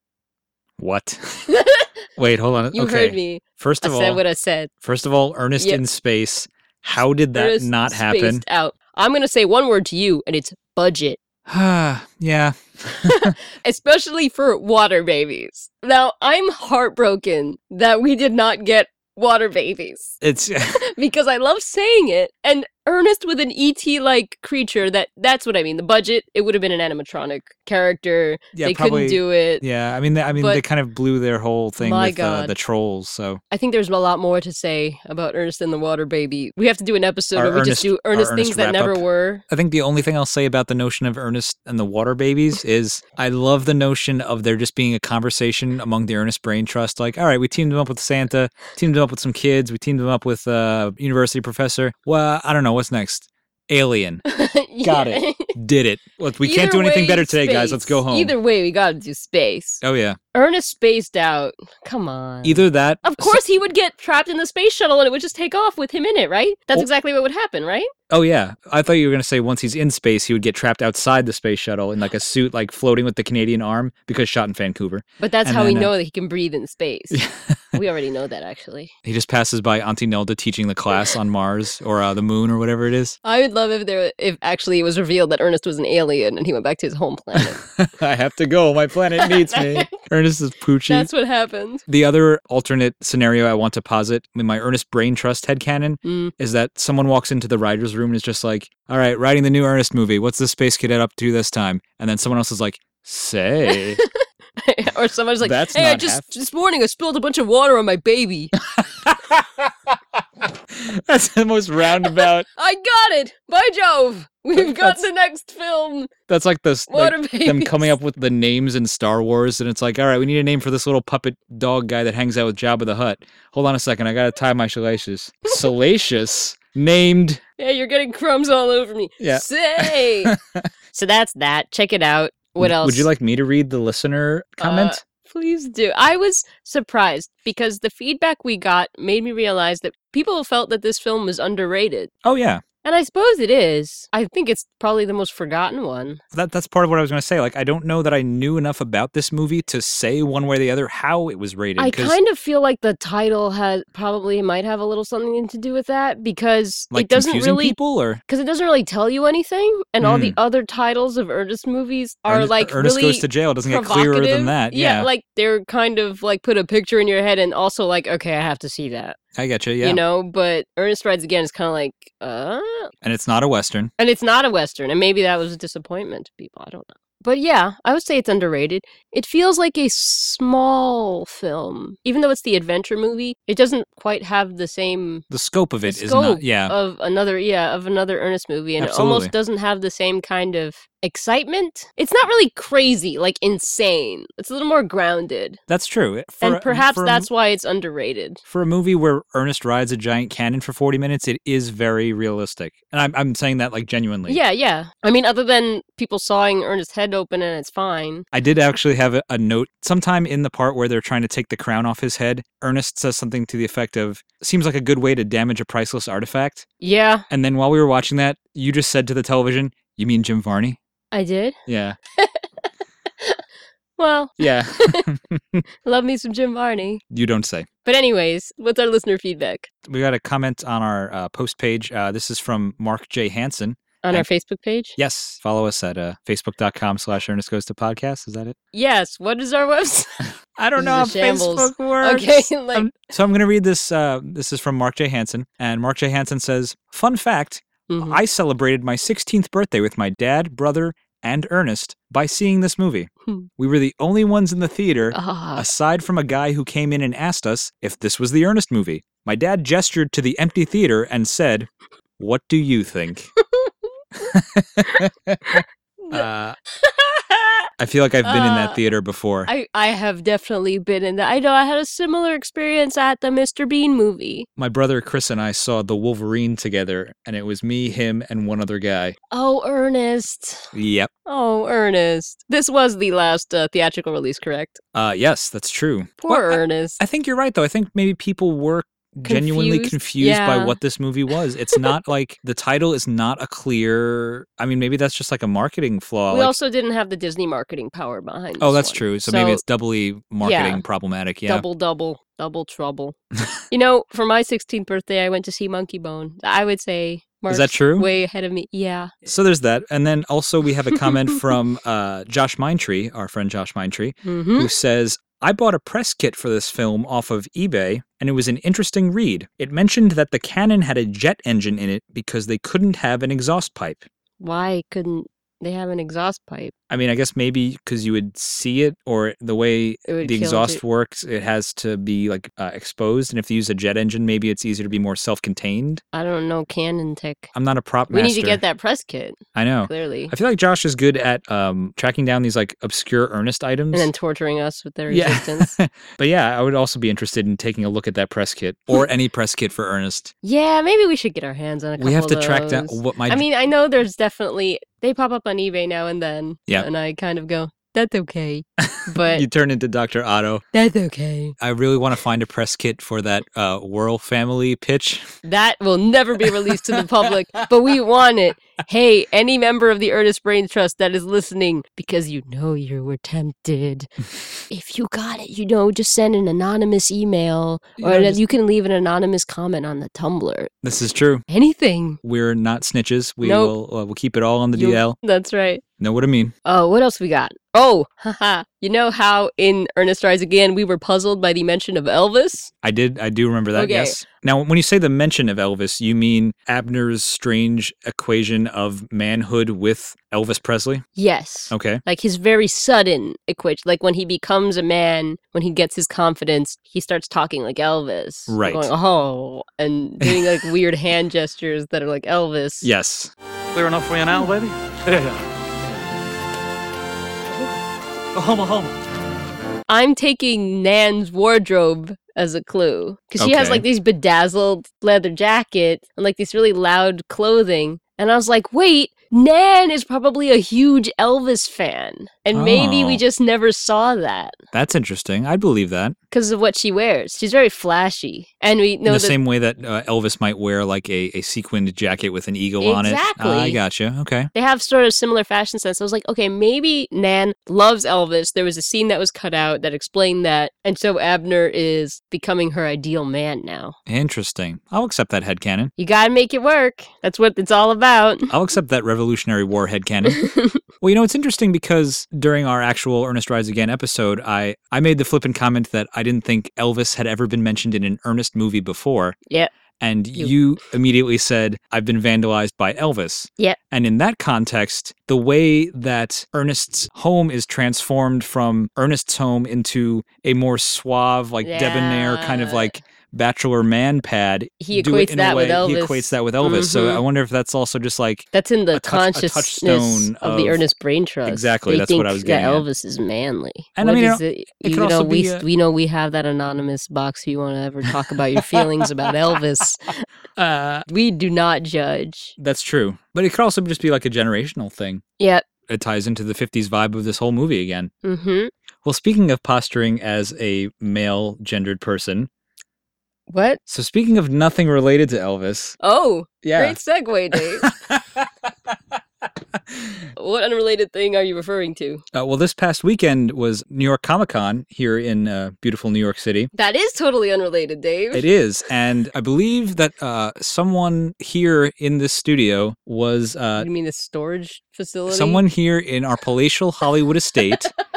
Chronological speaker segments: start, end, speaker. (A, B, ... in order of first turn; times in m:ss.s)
0:00.8-0:01.5 A
0:01.5-0:01.9 B
0:02.2-0:04.2 A
0:02.7-0:04.7 B
0:04.8-0:08.4 A
0:07.3-0:11.2 B
0:11.5-0:13.3 A
0:13.0-0:20.2 B
0:20.2-0:20.8 A
0:20.7-0:29.6 B
0:28.5-0:33.4 A
0:30.3-0:30.6 B
0:31.8-0:32.5 B
0:33.5-0:39.4 B
0:37.3-0:54.2 A
0:54.2-0:55.5 B
0:54.8-0:58.3 A
0:56.4-0:59.8 B
0:59.8-1:00.2 A
1:00.3-1:07.9 B
1:02.4-1:03.4 A
1:08.1-1:15.9 A
1:15.2-1:17.2 B
1:17.1-1:17.8 A
1:17.7-1:18.9 B
1:19.0-1:23.2 A
1:23.2-1:27.6 B
1:27.4-1:31.1 A
1:29.2-1:30.0 B
1:30.9-1:31.8 B
1:31.9-1:44.0 A
1:36.0-1:36.3 B
1:43.7-1:48.5 B
1:45.4-1:46.2 A
1:48.7-1:49.7 A
1:50.7-1:52.5 A
1:52.6-1:56.1 B
1:54.5-1:55.0 A
1:56.3-2:07.4 A
1:56.9-1:57.9 B
2:07.6-2:10.3 B
2:09.2-2:10.6 A
2:10.9-2:13.1 B
2:12.6-2:15.0 A
2:14.6-2:22.1 B
2:22.2-2:22.6 A
2:22.8-2:26.2 B
2:26.3-2:32.2 A
2:31.8-2:37.8 B
2:36.9-2:38.2 A
2:38.3-2:49.2 B
2:40.0-2:40.4 A
2:42.3-2:45.1 A
2:49.3-2:50.0 A
2:49.8-2:52.9 B
2:53.0-2:53.9 A
2:54.0-3:05.2 B
3:05.3-3:06.7 A
3:05.8-3:15.6 B
3:08.8-3:09.3 A
3:15.7-3:17.3 A
3:16.4-3:18.4 B
3:18.5-3:24.4 A
3:24.3-3:28.2 B
3:28.3-3:36.6 A
3:36.8-3:37.2 B
3:37.3-3:40.8 A
3:41.1-3:41.6 B
3:41.6-3:42.0 A
3:42.2-3:42.4 B
3:44.0-3:45.0 B
3:44.4-3:45.6 A
3:45.8-3:47.0 B
3:47.1-3:47.7 A
3:47.8-3:49.7 B
3:49.8-3:54.2 A
3:54.0-3:55.0 B
3:55.0-3:58.6 A
3:58.7-4:00.2 B
4:00.6-4:23.3 A
4:00.8-4:02.9 B
4:07.9-4:08.2 B
4:15.1-4:15.7 B
4:23.4-4:23.7 B
4:24.2-4:26.6 A
4:24.8-4:26.2 B
4:26.8-4:27.7 B
4:27.8-4:29.5 A
4:28.2-4:28.8 B
4:29.5-4:34.5 B
4:34.6-4:39.2 A
4:39.3-4:40.7 B
4:40.7-4:41.1 A
4:41.2-4:44.8 B
4:44.9-4:56.5 A
4:46.2-4:47.0 B
4:49.2-4:50.8 B
4:56.3-4:59.6 B
4:58.6-5:01.6 A
5:00.4-5:00.8 B
5:01.4-5:03.2 B
5:03.7-5:09.1 B
5:07.5-5:08.1 A
5:09.2-5:24.0 A
5:14.2-5:14.7 B
5:24.4-5:26.7 B
5:26.9-5:36.0 A
5:30.1-5:30.8 B
5:36.1-5:37.5 B
5:37.5-5:38.6 A
5:38.1-5:40.3 B
5:39.5-5:44.1 A
5:43.9-5:45.7 B
5:45.1-5:50.3 A
5:50.4-5:59.4 B
5:52.0-5:53.4 A
5:58.8-6:00.6 A
6:00.7-6:01.5 B
6:01.6-6:05.3 A
6:05.4-6:14.1 B
6:06.5-6:07.0 A
6:14.7-6:20.7 B
6:18.0-6:18.5 A
6:20.8-6:21.4 A
6:21.5-6:22.2 B
6:22.2-6:25.2 A
6:23.4-6:23.7 B
6:24.7-6:25.8 B
6:26.0-6:26.5 A
6:26.6-6:32.7 B
6:32.8-6:41.0 A
6:33.7-6:34.2 B
6:41.2-6:52.9 B
6:41.7-6:42.0 A
6:48.5-6:48.9 A
6:50.2-6:50.6 A
6:52.8-6:53.3 A
6:53.7-6:55.4 C
6:58.3-6:58.9 C
6:59.9-7:14.5 B
7:03.4-7:03.8 A
7:12.5-7:13.2 A
7:14.7-7:16.1 A
7:16.3-7:19.3 B
7:19.0-7:24.5 A
7:22.8-7:23.8 B
7:24.5-7:34.0 B
7:34.1-7:35.9 A
7:36.0-7:38.5 B
7:38.5-7:40.4 A
7:40.3-7:40.8 B
7:41.0-7:49.4 A
7:50.0-8:10.8 A
8:01.6-8:03.0 B
8:04.8-8:07.2 B
8:08.5-8:20.2 B
8:11.4-8:12.8 A
8:14.0-8:15.6 A
8:18.6-8:19.0 A
8:20.6-8:21.1 A
8:21.1-8:22.5 B
8:22.6-8:25.2 A
8:25.4-8:25.6 B
8:25.9-8:28.1 A
8:28.2-8:28.7 B
8:29.0-8:32.5 A
8:33.5-8:33.8 B
8:33.9-8:36.0 A
8:36.0-8:37.9 B
8:36.6-8:37.0 A
8:37.5-8:38.9 A
8:39.9-8:40.2 A
8:40.4-8:42.2 B
8:42.3-8:46.7 A
8:46.7-8:48.4 B
8:48.3-8:53.9 A
8:53.8-8:55.6 B
8:55.3-8:57.9 A